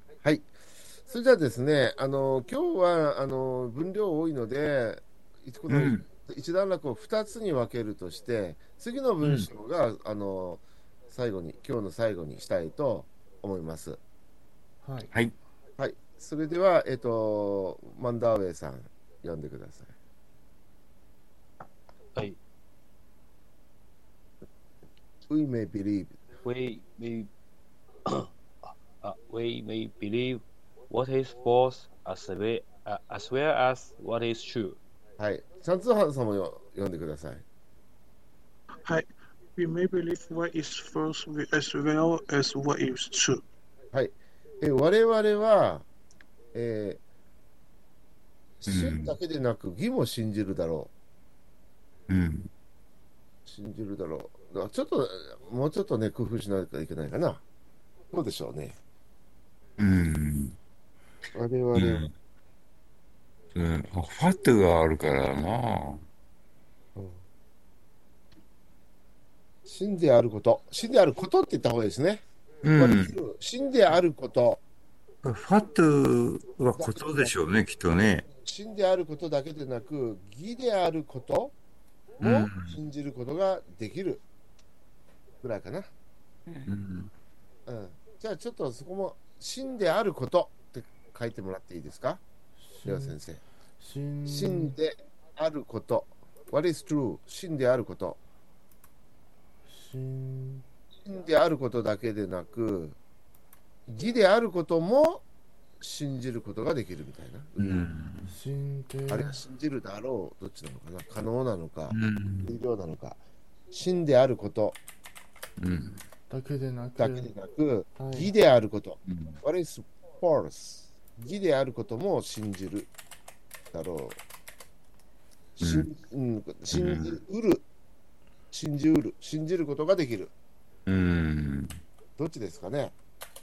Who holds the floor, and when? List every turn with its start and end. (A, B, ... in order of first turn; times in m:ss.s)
0:00.2-0:00.5 A
0:01.1-0:14.0 A
0:05.7-0:06.0 B
0:09.2-0:09.5 B
0:14.8-0:15.1 C
0:15.8-0:19.9 A
0:25.3-0:26.2 A
0:26.4-0:27.3 D
0:28.1-0:34.8 D
0:35.2-0:37.4 A
0:38.8-0:43.4 E
0:43.9-0:45.9 A
0:46.5-0:47.0 A
0:48.6-0:50.9 A
0:48.7-0:49.2 B
0:52.1-0:52.5 B
0:53.4-0:57.4 A
0:58.1-0:58.8 A
0:59.8-1:00.6 B
1:01.4-1:02.0 A
1:01.8-1:02.1 B
1:03.6-1:06.0 B
1:07.0-1:07.2 A
1:09.7-1:12.2 A
1:12.6-1:13.2 B
1:12.8-1:14.6 A
1:15.2-1:18.3 B
1:16.8-1:17.3 A
1:18.3-1:21.6 A
1:22.2-1:22.8 B
1:22.2-1:24.2 A
1:25.4-1:25.9 A
1:26.7-1:27.1 B
1:27.7-1:32.2 A
1:32.6-1:33.2 C
1:32.8-1:33.4 A
1:33.8-1:34.8 C
1:34.2-1:38.2 A
1:39.7-1:40.7 C
1:41.0-1:43.0 A
1:43.9-1:45.2 A
1:45.8-1:47.8 A
1:47.6-1:48.3 B
1:48.3-1:49.4 C
1:49.1-1:53.2 A
1:51.9-1:52.6 B
1:53.7-1:54.8 A
1:55.6-1:56.0 B
1:56.3-1:57.3 C
1:57.0-2:02.9 A
1:58.0-1:58.3 C
1:59.1-1:59.4 B
2:03.7-2:04.2 A
2:05.6-2:07.6 A
2:05.6-2:05.9 B
2:06.7-2:07.2 B
2:08.5-2:10.3 A
2:10.9-2:11.8 B
2:12.2-2:13.0 A